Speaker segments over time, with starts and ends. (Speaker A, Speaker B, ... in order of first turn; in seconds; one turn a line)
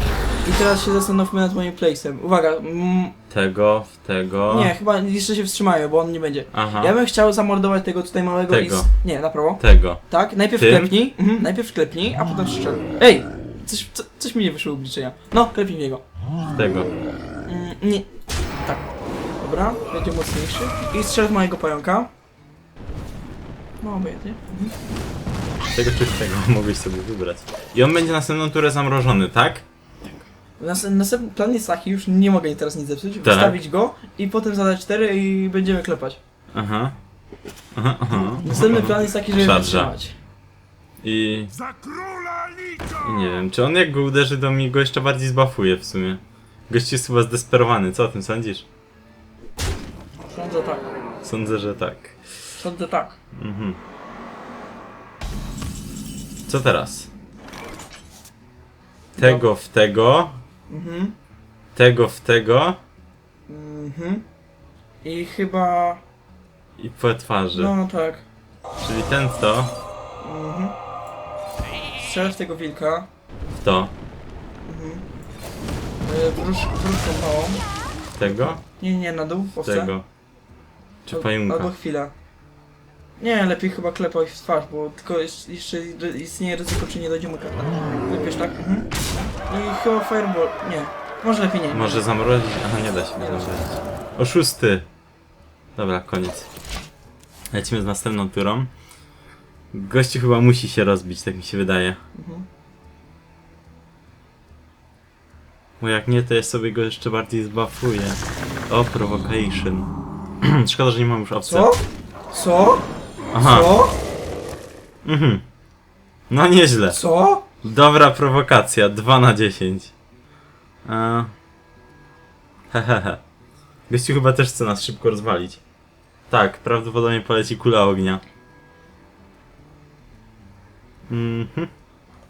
Speaker A: 0.4-3.1
Speaker B: 3.3-4.7
Speaker A: 4.5-16.0
Speaker B: 6.5-6.9
Speaker B: 8.5-8.9
Speaker B: 9.6-10.0
Speaker B: 10.6-10.9
Speaker B: 16.5-16.9
Speaker A: 17.4-18.1
Speaker A: 19.4-22.1
Speaker A: 23.8-24.7
Speaker B: 25.7-29.6
Speaker A: 30.1-36.2
Speaker B: 33.2-33.6
Speaker B: 36.5-37.0
Speaker B: 37.7-39.9
Speaker A: 38.1-40.1
Speaker B: 41.0-41.5
Speaker B: 43.0-48.6
Speaker A: 50.3-50.9
Speaker B: 51.2-52.2
Speaker A: 52.6-53.2
Speaker B: 53.3-53.8
Speaker B: 56.5-57.1
Speaker A: 59.1-59.4
Speaker B: 59.2-60.4
Speaker A: 60.7-61.1
Speaker B: 61.7-62.8
Speaker A: 63.5-64.2
Speaker A: 65.0-66.0
Speaker B: 66.8-67.7
Speaker A: 67.5-68.2
Speaker B: 68.8-69.7
Speaker A: 70.2-70.7
Speaker A: 72.0-73.1
Speaker B: 73.5-73.9
Speaker A: 74.6-75.0
Speaker A: 76.0-77.6
Speaker B: 78.1-78.6
Speaker A: 78.2-79.9
Speaker B: 79.6-80.0
Speaker B: 81.0-81.7
Speaker A: 81.1-82.1
Speaker A: 83.2-88.9
Speaker A: 89.5-92.0
Speaker B: 91.7-94.9
Speaker A: 93.2-93.6
Speaker B: 95.8-96.5
Speaker B: 97.5-98.7
Speaker B: 99.7-102.0
Speaker A: 102.1-102.5
Speaker B: 105.8-109.9
Speaker B: 110.4-111.7
Speaker A: 111.5-114.0
Speaker B: 113.3-113.7
Speaker B: 115.0-115.4
Speaker B: 116.3-117.0
Speaker A: 116.9-117.4
Speaker B: 117.6-119.9
Speaker B: 120.8-121.3
Speaker B: 122.7-123.2
Speaker B: 123.9-125.6
Speaker B: 126.3-128.2
Speaker B: 131.1-131.7